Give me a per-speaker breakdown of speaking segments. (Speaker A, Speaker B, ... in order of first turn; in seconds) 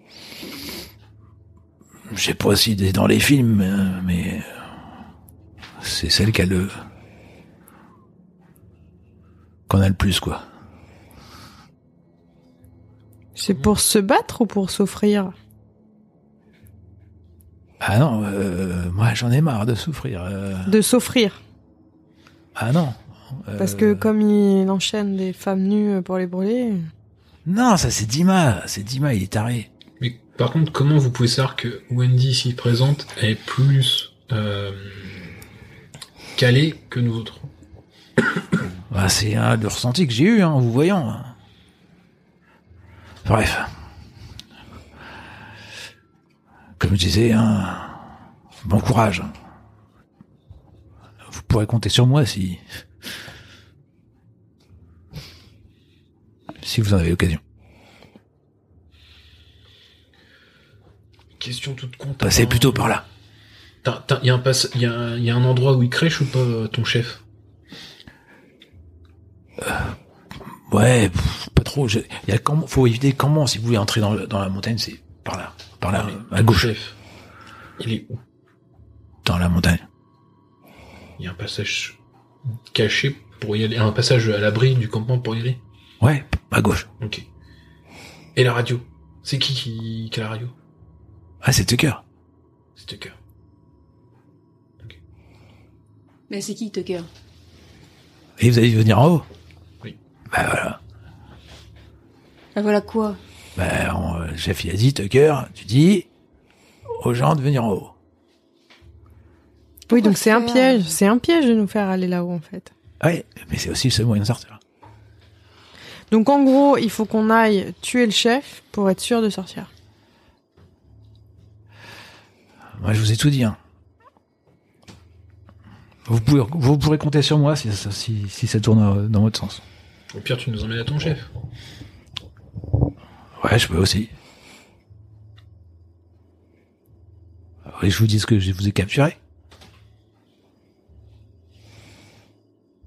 Speaker A: 2.1-4.5, 5.8-6.7, 9.7-10.4, 17.8-20.8, 22.6-24.1, 27.5-29.7, 38.9-41.4, 43.2-43.7, 46.8-48.0, 48.6-49.3, 51.3-52.6, 56.6-57.4, 62.2-63.0, 69.6-70.0, 70.7-76.7, 79.2-79.8, 86.0-86.9, 91.4-92.0, 98.4-99.2, 100.3-100.8, 103.6-106.1, 106.9-107.9, 113.0-114.6, 122.8-123.6, 126.1-129.6, 133.4-134.1, 137.7-139.2
Speaker B: 13.4-15.3, 20.7-21.4, 23.6-26.9, 109.9-112.7, 116.1-119.7
Speaker C: 30.0-35.3, 36.4-37.5, 61.4-63.0, 63.8-67.2, 75.9-77.0, 77.8-78.2, 81.2-82.0, 82.7-85.6, 87.0-87.3, 88.4-90.5, 92.8-93.2, 130.1-131.3
Speaker D: 96.3-97.1, 102.5-103.2, 109.9-110.9